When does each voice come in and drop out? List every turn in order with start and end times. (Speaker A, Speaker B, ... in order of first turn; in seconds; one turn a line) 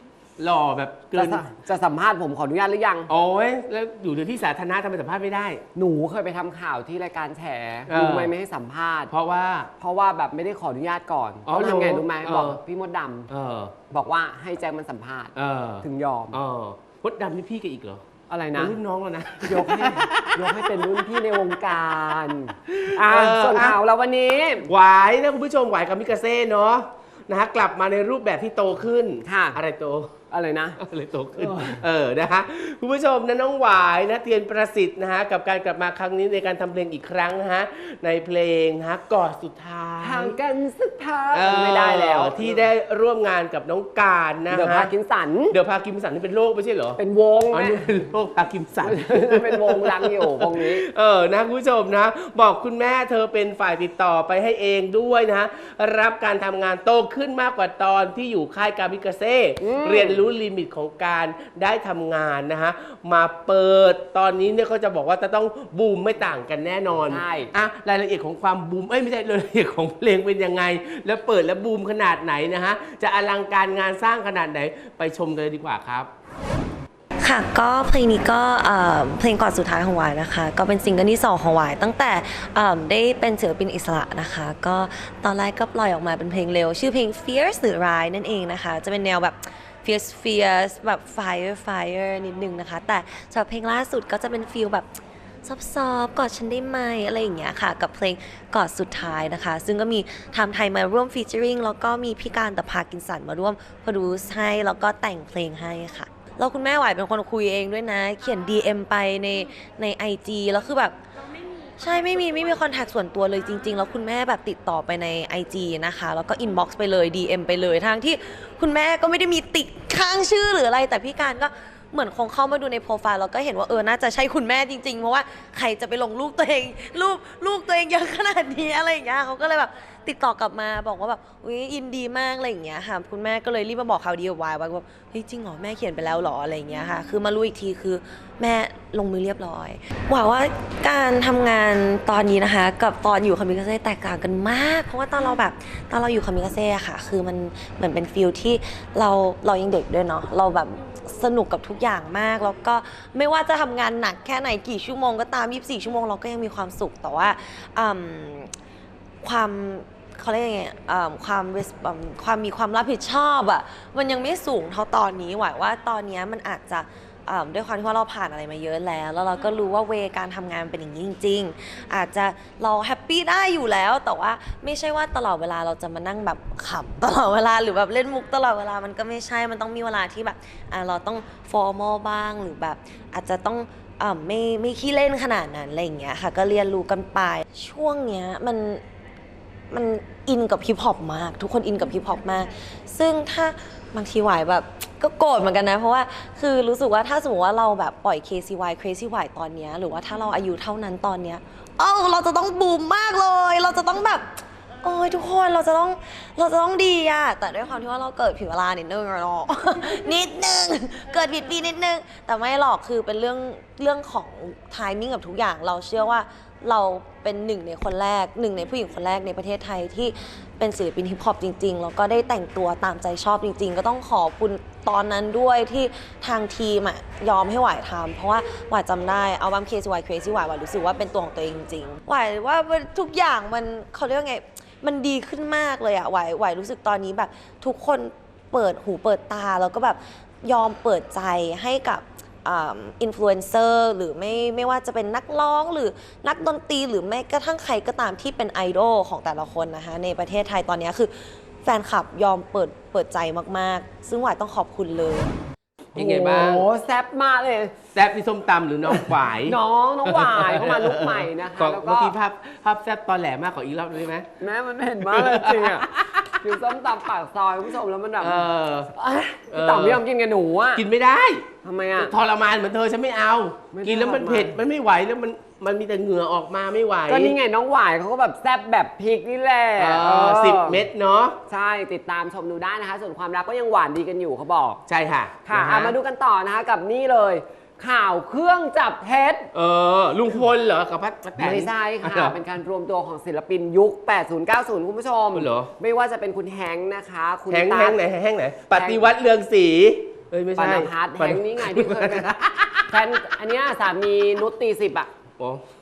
Speaker A: 0.4-1.5
Speaker B: 1.1-3.1
Speaker A: 3.1-5.6
Speaker B: 5.8-9.1
Speaker A: 7.9-8.3
Speaker A: 9.1-9.7
Speaker B: 9.8-13.3
Speaker A: 11.5-12.6
Speaker A: 13.3-13.7
Speaker B: 13.9-16.4
Speaker A: 15.3-18.1
Speaker B: 18.3-18.8
Speaker A: 18.6-23.8
Speaker B: 19.4-24.7
Speaker A: 24.6-30.1
Speaker B: 29.2-29.6
Speaker B: 30.3-30.8
Speaker A: 30.8-40.4
Speaker B: 31.4-31.8
Speaker B: 40.0-42.6
Speaker A: 41.3-44.9
Speaker B: 44.5-45.6
Speaker A: 45.5-47.0
Speaker B: 47.0-47.8
Speaker A: 47.5-76.1
Speaker B: 48.8-50.8
Speaker B: 59.6-60.3
Speaker B: 67.0-67.5
Speaker C: 77.2-111.0
Speaker C: 111.8-158.5
Speaker C: 159.2-188.8
Speaker C: 189.7-255.3
Speaker A: 255.9-256.7
Speaker B: 255.9-257.9
Speaker A: 257.9-264.3
Speaker B: 258.9-262.2
Speaker B: 264.4-270.9
Speaker A: 265.0-266.4
Speaker A: 268.2-268.9
Speaker A: 269.5-270.0
Speaker A: 270.8-277.4
Speaker B: 271.6-272.1
Speaker B: 273.7-274.6
Speaker B: 277.1-280.9
Speaker A: 279.8-281.4
Speaker B: 281.5-284.8
Speaker A: 284.9-286.0
Speaker B: 285.5-289.5
Speaker A: 289.5-292.4
Speaker B: 291.4-298.0
Speaker A: 295.3-295.7
Speaker A: 297.5-303.0
Speaker B: 298.7-299.1
Speaker B: 300.6-302.3
Speaker B: 302.9-305.1